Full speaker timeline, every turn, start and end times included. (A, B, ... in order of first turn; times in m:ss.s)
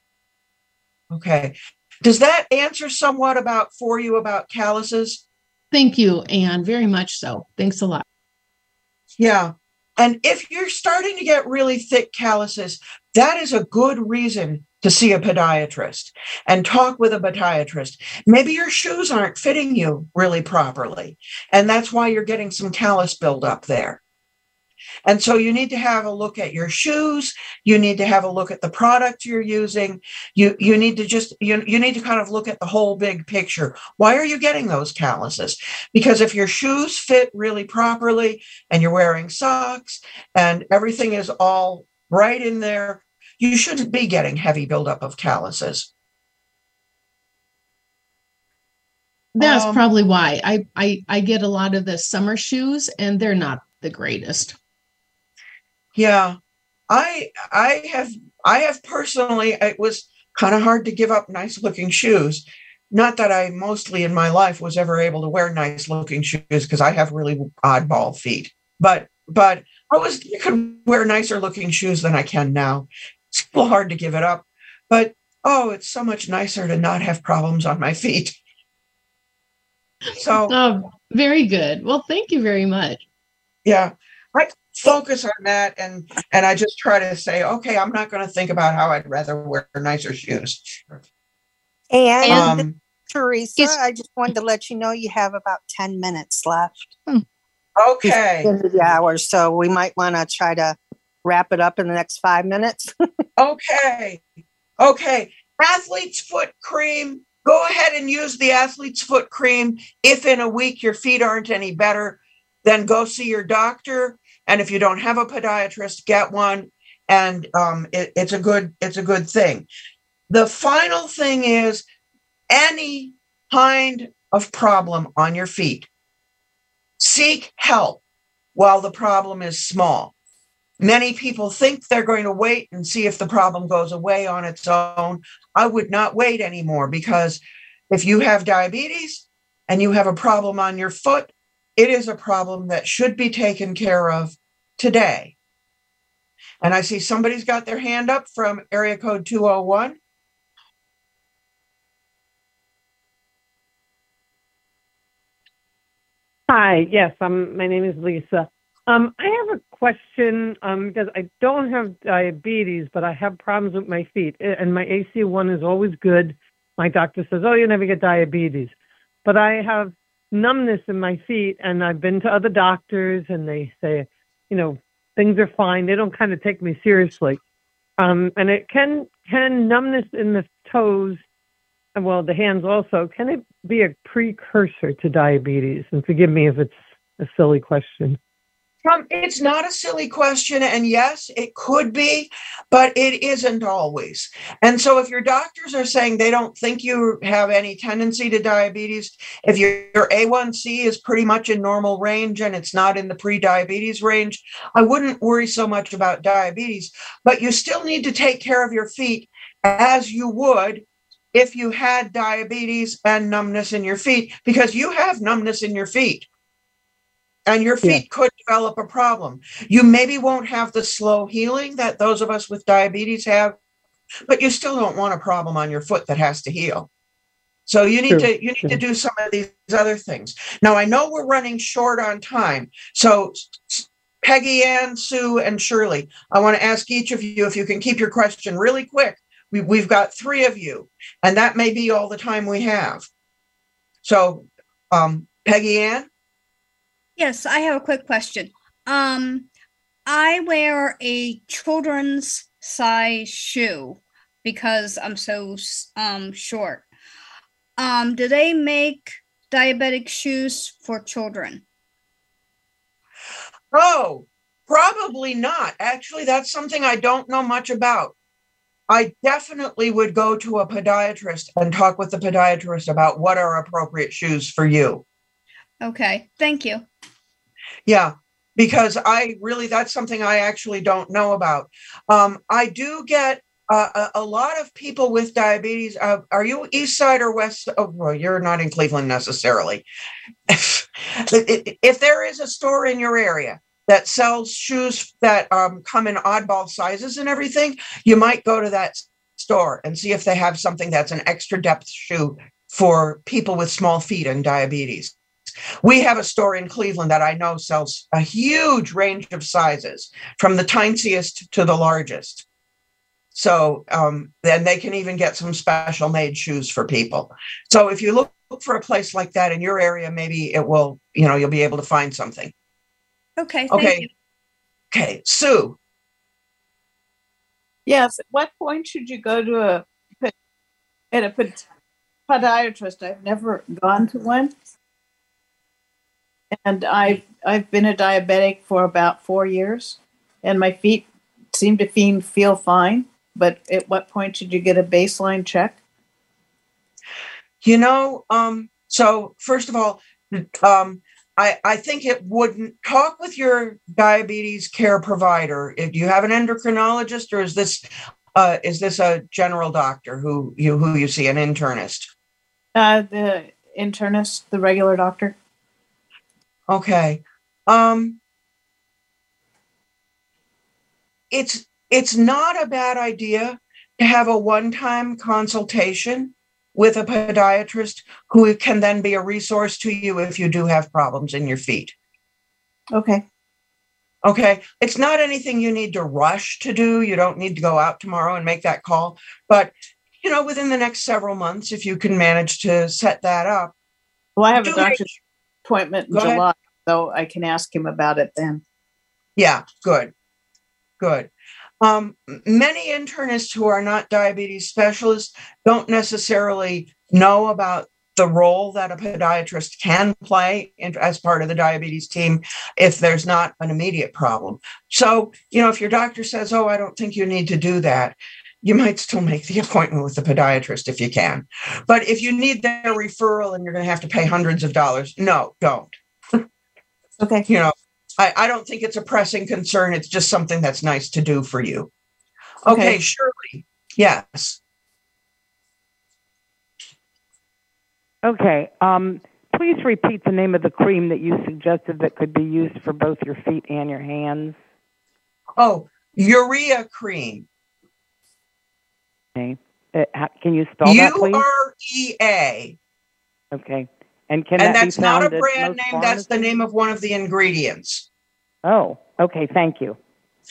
0:01.1-0:05.2 A
0:05.7-0:08.0 B
0:09.2-0:24.0 A
0:25.0-0:45.9 A
0:49.4-0:49.8 A
0:49.4-0:54.6 B
0:56.0-0:56.4 A
0:56.9-1:18.4 A
1:20.2-1:20.5 A
1:20.5-1:23.0 B
1:23.6-1:31.0 A
1:31.9-1:37.0 C
1:32.3-1:32.8 A
1:37.8-1:38.5 A
1:38.1-1:42.9 C
1:43.4-1:44.2 A
1:44.8-1:59.7 A
2:00.3-2:01.8 A
2:02.5-2:05.9 A
2:07.0-2:08.0 A
2:08.6-2:10.1 A
2:10.8-2:25.4 A
2:26.6-2:30.0 A
2:36.5-2:48.7 D
2:49.2-2:57.4 D
2:58.0-3:01.2 D
3:02.0-3:08.2 D
3:08.8-3:36.3 A
3:37.5-3:43.6 A
3:44.3-3:46.9 A
3:47.7-4:03.1 A
3:48.1-3:48.8 D
4:04.0-4:06.1 A
4:07.2-4:09.5 E
4:10.1-4:16.9 E
4:17.8-4:21.6 E
4:23.7-4:28.2 A
4:28.9-4:35.0 A
4:35.8-4:36.8 E
4:37.9-4:49.8 A
4:50.5-5:05.1 A
5:05.8-5:12.4 A
5:13.3-5:22.5 A
5:23.4-5:24.1 E
5:23.7-5:24.1 A
5:24.9-5:25.8 A
5:27.9-5:30.3 F
5:31.1-5:31.6 F
5:32.3-5:34.5 F
5:36.6-5:45.8 F
5:47.6-6:02.1 A
6:02.8-6:05.4 F
6:06.7-6:08.2 A
6:11.3-6:21.9 A
6:22.9-6:23.2 F
6:24.2-6:33.7 A
6:34.4-6:35.1 F
6:34.6-6:35.1 A
6:35.6-6:38.6 F
6:36.1-6:36.4 A
6:39.4-6:40.1 A
6:41.0-6:41.3 A
6:41.8-7:06.0 A
7:07.5-7:11.9 A
7:12.6-7:14.6 A
7:12.7-7:12.9 C
7:18.2-7:24.6 G
7:25.6-7:27.5 A
7:29.4-7:31.5 G
7:30.8-7:32.8 A
7:33.5-7:36.3 G
7:34.6-7:38.1 A
7:38.6-7:40.0 G